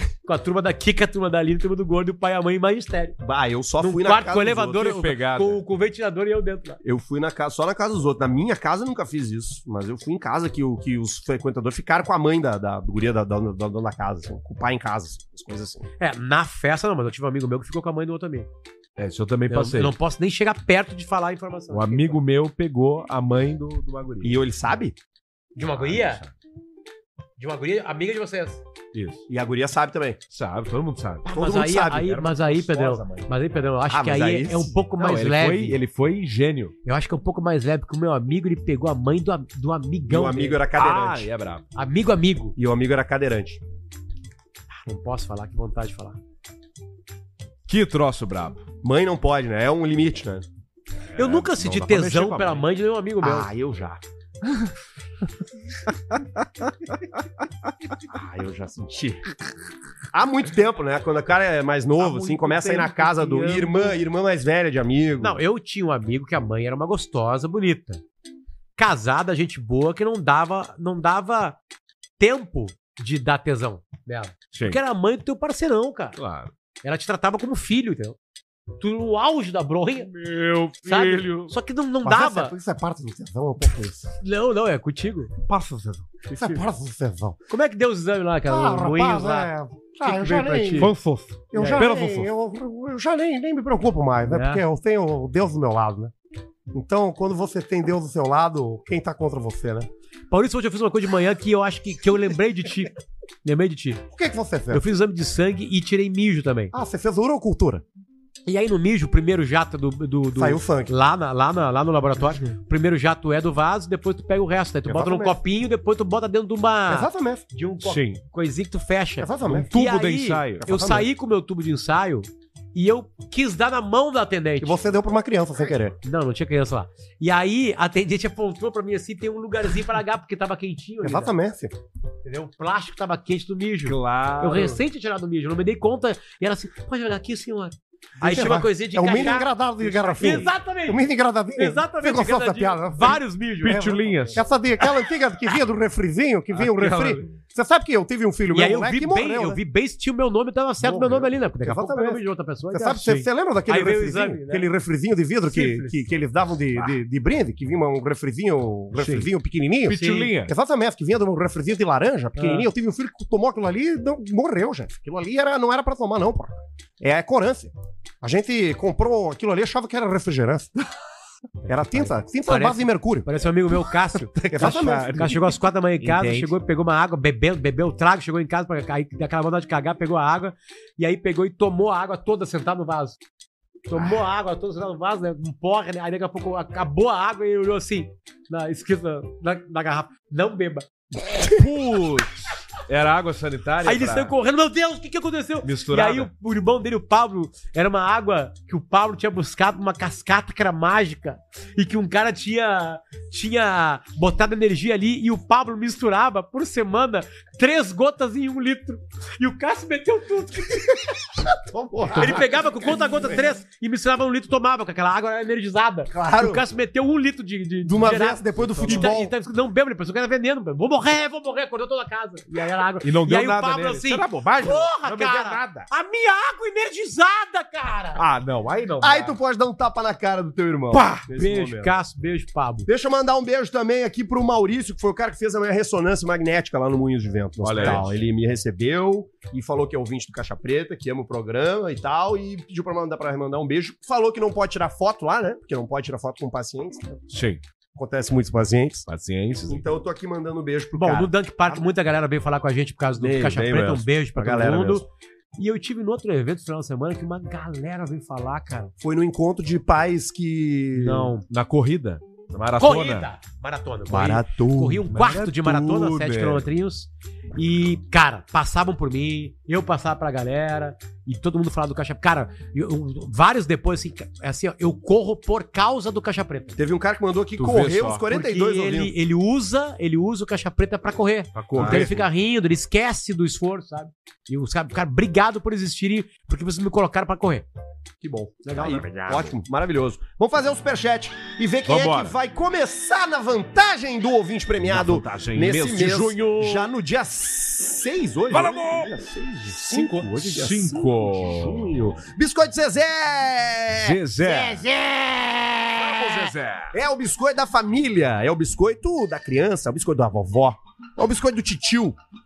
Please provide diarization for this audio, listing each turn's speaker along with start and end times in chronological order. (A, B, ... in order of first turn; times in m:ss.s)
0:00.2-0:03.2 A
0:03.2-0:04.8 B
0:03.8-0:06.8 A
0:04.6-0:05.6 C
0:06.8-0:15.8 B
0:16.0-0:18.5 A
0:19.0-0:19.9 C
0:19.5-0:22.2 A
0:21.7-0:24.4 C
0:24.2-0:24.9 B
0:25.5-0:26.2 A
0:25.7-0:26.3 C
0:27.4-0:28.6 A
0:28.9-0:29.2 C
0:29.3-0:30.2 B
0:30.3-0:31.3 C
0:31.2-0:35.8 A
0:31.3-0:32.2 B
0:32.0-0:33.3 C
0:33.9-0:34.8 B
0:35.0-0:36.7 C
0:36.8-0:40.6 A
0:40.1-0:41.3 B
0:40.8-0:41.6 C
0:41.7-0:42.5 A
0:42.6-0:43.6 B
0:44.8-0:46.2 A
0:47.7-0:48.6 C
0:48.8-0:50.4 B
0:51.1-0:52.7 C
0:51.2-0:53.5 A
0:53.2-0:54.0 B
0:58.1-0:59.3 B
1:00.1-1:05.4 B
1:02.0-1:04.0 C
1:05.2-1:08.0 A
1:08.8-1:11.6 A
1:12.2-1:16.2 A
1:14.5-1:14.8 C
1:16.2-1:16.5 C
1:16.8-1:18.2 A
1:18.8-1:20.1 A
1:20.0-1:21.5 C
1:20.8-1:22.5 A
1:22.0-1:24.1 B
1:24.2-1:25.3 A
1:25.5-1:26.2 C
1:26.3-1:26.6 A
1:26.3-1:27.4 B
1:27.5-1:29.5 A
1:28.5-1:30.9 B
1:30.0-1:30.9 A
1:30.8-1:32.3 C
1:31.5-1:36.1 B
1:31.5-1:31.9 A
1:34.3-1:34.6 A
1:36.7-1:39.9 B
1:40.3-1:44.0 A
1:44.1-1:44.8 B
1:44.7-1:46.7 A
1:46.7-1:47.8 B
1:48.4-2:04.8 A
1:50.4-1:50.9 B
1:54.8-1:55.4 B
1:56.9-1:57.4 B
1:57.8-1:58.2 C
1:59.2-1:59.7 B
1:59.7-2:00.6 C
2:00.6-2:01.1 B
2:04.6-2:06.0 B
2:06.0-2:11.3 A
2:11.0-2:11.7 B
2:12.2-2:21.0 A
2:13.8-2:14.8 C
2:18.2-2:29.6 B
2:21.6-2:23.8 A
2:23.6-2:24.4 C
2:26.5-2:27.3 C
2:28.5-2:33.1 A
2:30.8-2:31.3 C
2:31.6-2:32.2 B
2:32.7-2:50.8 B
2:33.7-2:34.7 A
2:35.5-2:36.0 A
2:38.9-2:39.3 C
2:39.8-2:40.5 C
2:39.9-2:40.3 A
2:42.4-2:42.6 A
2:51.6-3:03.2 A
2:51.7-2:53.3 B
2:54.5-2:55.3 B
2:54.5-2:56.5 C
3:03.9-3:10.9 A
3:11.5-3:14.3 C
3:13.8-3:31.0 A
3:15.6-3:16.3 C
3:31.4-3:33.4 B
3:32.1-3:48.2 A
3:36.1-3:36.6 B
3:37.8-3:39.3 B
3:38.8-3:39.2 C
3:43.0-3:45.9 C
3:48.2-3:49.4 C
3:49.0-3:51.9 B
3:50.9-3:51.2 C
3:51.1-3:52.9 A
3:52.8-4:07.2 B
3:57.6-3:58.2 C
4:07.3-4:07.6 C
4:08.0-4:09.1 B
4:09.1-4:09.8 C
4:09.7-4:11.8 B
4:11.0-4:15.0 A
4:13.2-4:15.0 B
4:15.6-4:18.9 A
4:19.0-4:21.3 B
4:21.0-4:21.4 A
4:21.5-4:23.3 C
4:22.8-4:36.7 A
4:24.1-4:25.0 B
4:25.1-4:26.7 C
4:36.8-4:39.1 B
4:37.6-4:38.2 C
4:38.3-4:47.7 A
4:41.5-4:42.3 C
4:41.7-4:42.1 B
4:48.2-5:12.2 B
4:48.7-4:49.0 A
4:48.8-4:49.5 C
4:51.8-4:52.4 C
4:54.8-4:56.9 C
4:58.5-4:59.1 C
4:59.7-5:01.9 C
5:04.0-5:04.8 C
5:05.9-5:07.0 C